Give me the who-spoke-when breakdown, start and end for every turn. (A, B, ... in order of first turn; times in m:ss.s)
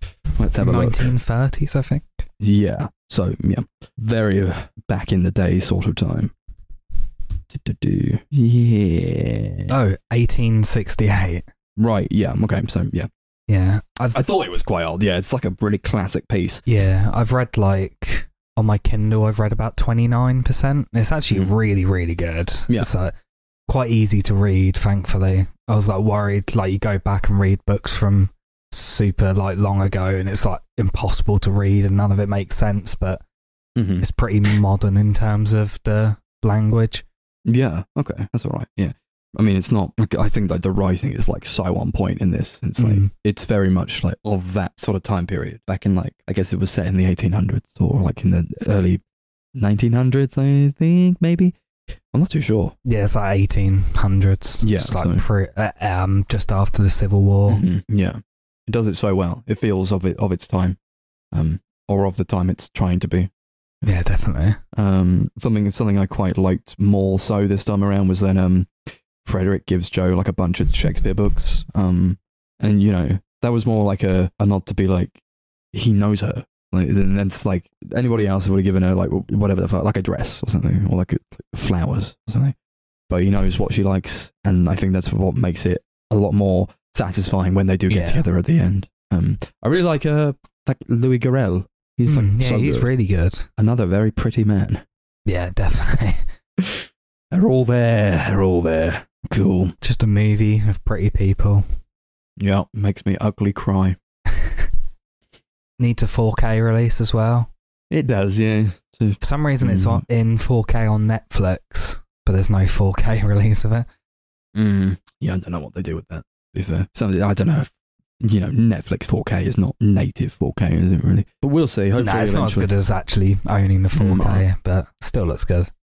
0:00.4-0:01.1 A
0:00.6-0:02.2 B
0:02.4-0:06.3 A
0:07.5-0:09.7 A
0:09.7-0:11.4 B
0:11.8-0:13.1 A
0:13.5-0:14.2 B
0:14.1-0:16.6 A
0:16.7-0:23.1 B
0:23.7-0:33.2 B
0:33.8-0:34.1 A
0:34.0-0:37.0 B
0:37.5-0:49.0 A
0:42.8-0:43.1 B
0:49.6-0:51.6 A
0:52.1-0:52.8 A
0:52.8-0:57.6 B
0:54.6-0:55.2 A
0:57.5-1:00.8 A
1:01.3-1:03.3 A
1:03.8-1:04.6 B
1:04.7-1:15.2 A
1:15.7-1:22.6 A
1:23.1-1:32.9 A
1:27.9-1:28.3 B
1:32.1-1:33.5 B
1:33.6-1:34.8 A
1:35.3-1:36.2 B
1:36.6-1:39.8 A
1:39.8-1:41.7 B
1:42.4-1:44.0 A
1:45.8-1:47.5 B
1:47.9-1:50.0 A
1:49.2-1:53.9 B
1:54.6-2:02.7 A
2:02.0-2:05.7 B
2:04.0-2:04.4 A